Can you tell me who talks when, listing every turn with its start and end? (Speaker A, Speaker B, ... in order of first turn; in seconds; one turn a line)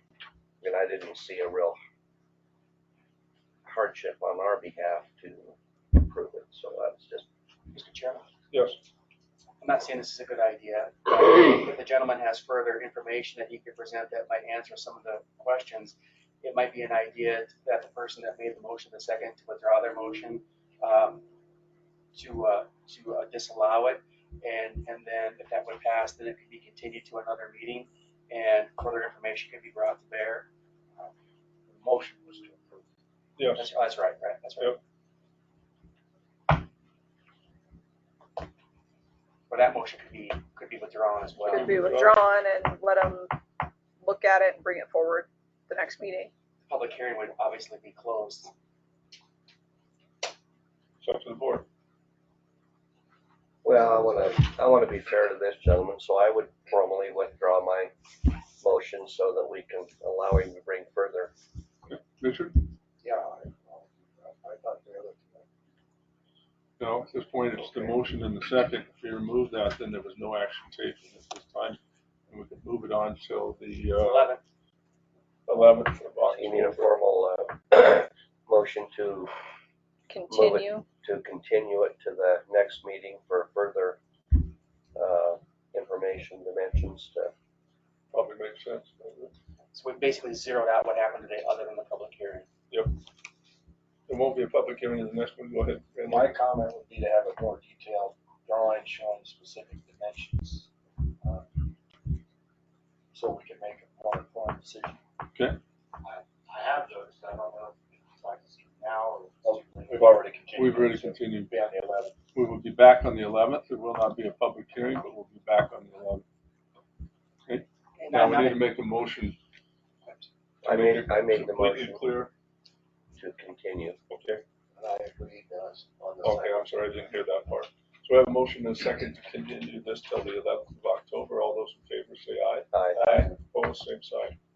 Speaker A: 0.6-1.8
Speaker A: 3.6-7.2
Speaker B: 7.7-8.2
Speaker C: 8.5-8.8
Speaker B: 9.6-21.2
Speaker B: 22.1-30.5
Speaker D: 31.7-32.8
Speaker C: 33.4-33.7
Speaker B: 33.5-34.7
Speaker B: 39.5-41.8
Speaker C: 41.4-42.1
Speaker E: 41.5-43.4
Speaker E: 44.0-46.3
Speaker B: 46.6-48.5
Speaker C: 51.0-51.6
Speaker A: 53.6-57.9
Speaker A: 58.6-61.3
Speaker C: 61.9-62.7
Speaker D: 63.0-65.5
Speaker C: 66.8-74.3
Speaker B: 74.0-74.4
Speaker C: 75.5-77.0
Speaker A: 76.3-79.3
Speaker E: 80.1-80.8
Speaker A: 80.3-84.0
Speaker A: 84.9-87.3
Speaker C: 88.1-89.3
Speaker B: 89.7-92.5
Speaker C: 92.7-93.0
Speaker C: 94.1-96.3
Speaker D: 96.1-101.8
Speaker D: 103.1-105.0
Speaker C: 105.3-105.6
Speaker D: 106.0-112.2
Speaker C: 109.9-111.5
Speaker C: 112.3-116.2
Speaker C: 117.5-119.4
Speaker B: 118.0-118.6
Speaker A: 120.6-122.0
Speaker C: 120.7-122.3
Speaker A: 123.1-124.0
Speaker C: 124.1-124.4
Speaker D: 124.8-126.7
Speaker C: 126.2-134.4
Speaker A: 132.7-133.0